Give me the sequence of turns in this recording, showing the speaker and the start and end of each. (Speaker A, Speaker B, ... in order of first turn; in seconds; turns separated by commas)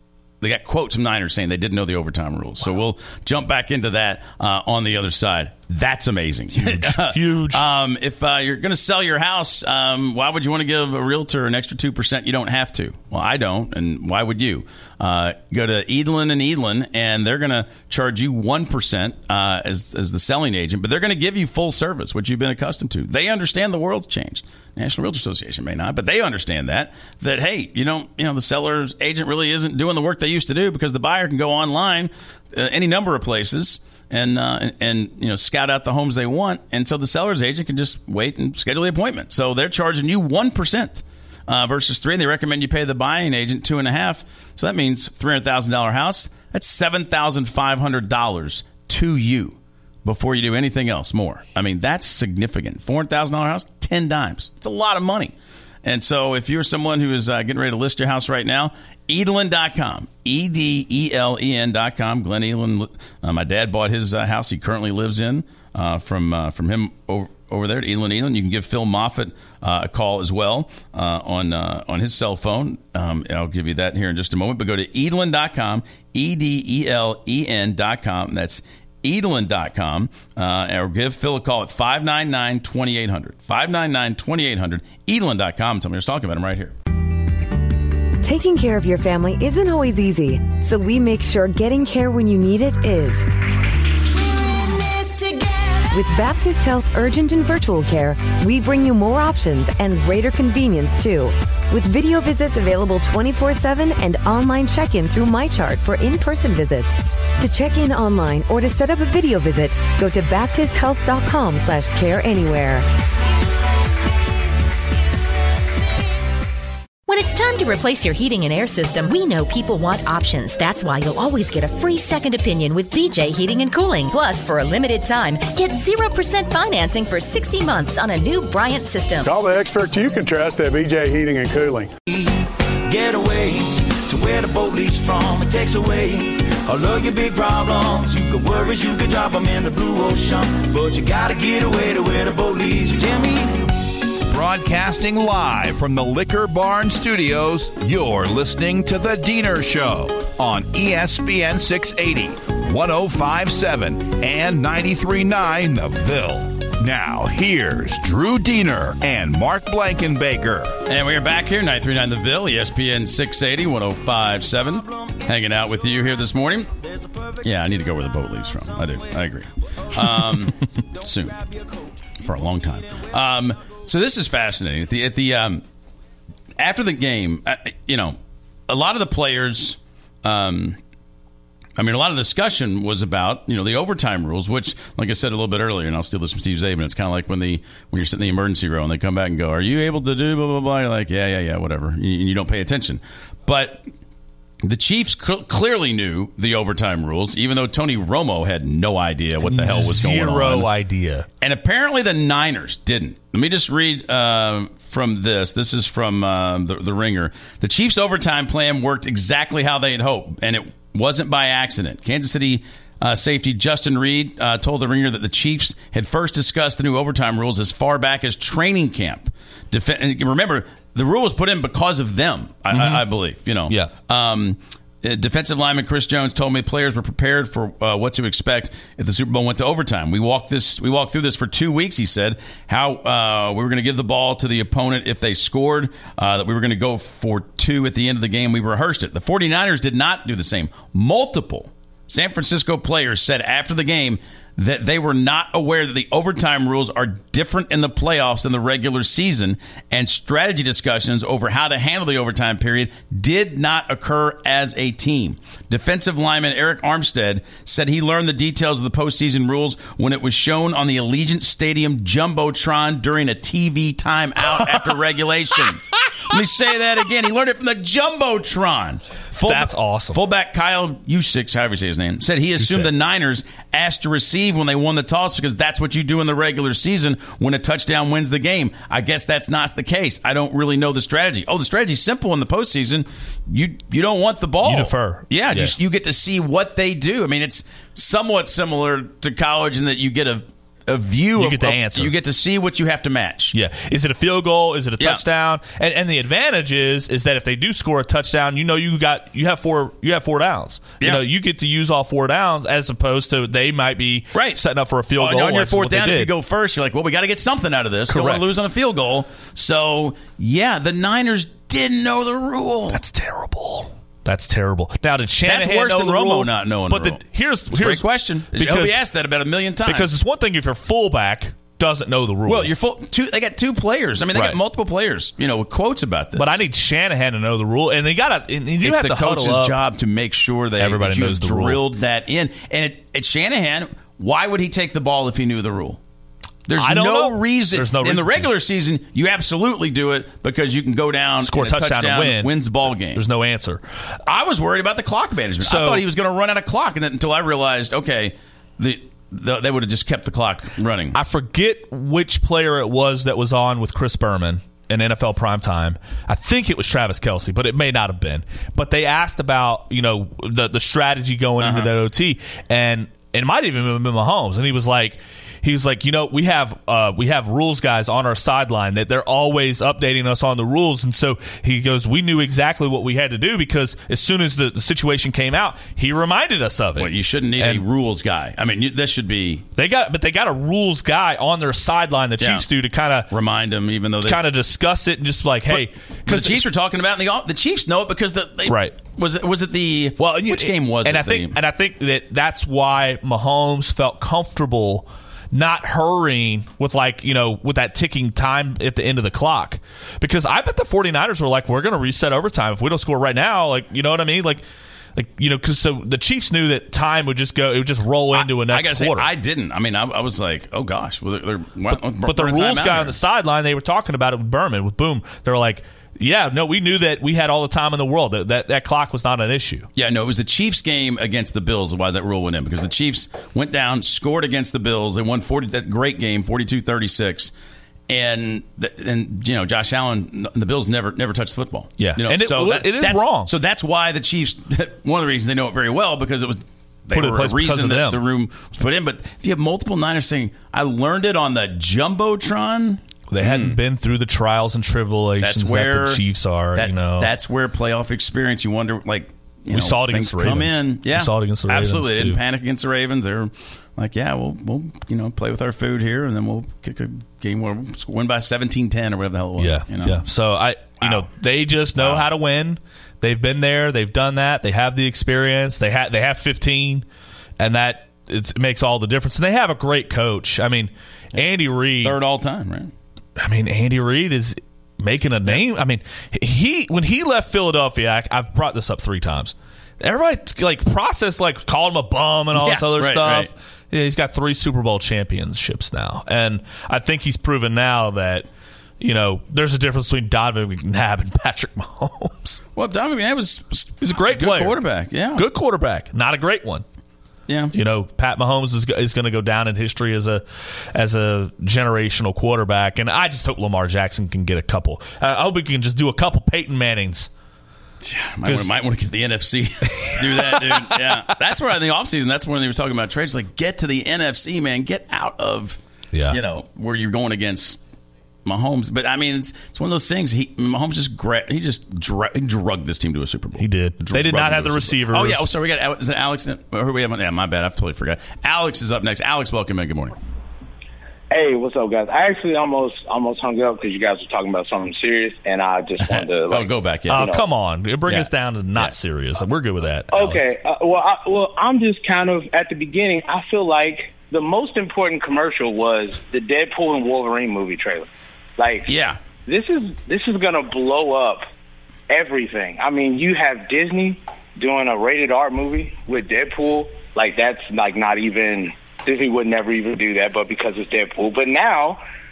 Speaker A: 0.4-55.3, Speaker B: 6.6-7.6, Speaker A: 55.8-86.8, Speaker C: 88.2-93.2, Speaker C: 95.9-112.8, Speaker D: 117.1-129.2, Speaker E: 129.2-131.9, Speaker F: 132.9-143.7, Speaker G: 144.2-160.8, Speaker A: 160.9-166.7, Speaker A: 167.4-171.5, Speaker A: 172.2-175.6, Speaker A: 176.6-178.2, Speaker A: 178.7-180.8, Speaker A: 181.8-193.8, Speaker A: 194.6-200.7, Speaker B: 199.4-201.3, Speaker A: 201.4-293.6, Speaker B: 222.7-223.1, Speaker B: 269.5-270.2, Speaker B: 272.6-272.9, Speaker B: 284.6-285.8, Speaker B: 291.4-292.1, Speaker B: 293.5-306.3, Speaker A: 304.3-304.6, Speaker A: 305.2-313.0, Speaker B: 308.1-308.5, Speaker B: 312.9-319.0, Speaker A: 315.4-320.1, Speaker B: 319.9-322.7, Speaker A: 322.5-326.6, Speaker B: 326.4-329.8, Speaker A: 328.8-336.0, Speaker B: 330.8-331.8, Speaker A: 336.7-343.2, Speaker B: 336.8-338.5, Speaker B: 341.4-342.5, Speaker B: 343.1-343.8, Speaker A: 344.3-351.2, Speaker B: 345.6-346.0, Speaker B: 351.1-377.8, Speaker A: 361.6-361.9, Speaker A: 377.0-379.7, Speaker B: 379.8-383.3, Speaker A: 382.4-382.6, Speaker A: 383.3-384.4, Speaker B: 384.2-386.6, Speaker A: 385.7-391.6, Speaker B: 388.7-389.0, Speaker B: 390.2-404.6, Speaker B: 405.1-409.3, Speaker A: 408.4-413.1, Speaker B: 411.9-419.9, Speaker A: 420.0-427.5, Speaker A: 428.1-443.8, Speaker B: 432.0-433.5, Speaker B: 437.1-438.2, Speaker B: 443.3-447.3, Speaker A: 445.4-446.2, Speaker A: 446.8-460.2, Speaker B: 449.7-452.4, Speaker B: 459.6-467.1, Speaker A: 461.0-461.3, Speaker A: 462.0-462.3, Speaker B: 467.6-472.1, Speaker A: 472.0-472.9, Speaker B: 473.4-488.5, Speaker A: 482.6-483.5, Speaker B: 489.0-492.6, Speaker A: 492.8-495.5, Speaker B: 494.0-494.8, Speaker B: 495.4-496.8, Speaker A: 497.5-497.7, Speaker B: 497.7-507.3, Speaker A: 508.0-515.8, Speaker B: 509.9-511.4, Speaker B: 516.1-516.4, Speaker A: 516.3-517.8, Speaker A: 518.5-530.1, Speaker B: 523.6-525.5, Speaker H: 531.3-537.4, Speaker A: 536.0-537.4, Speaker B: 537.1-540.5, Speaker A: 538.1-538.9, Speaker H: 540.1-548.1, Speaker H: 548.6-548.9, Speaker A: 548.9-549.2, Speaker H: 549.5-551.4, Speaker H: 552.1-562.0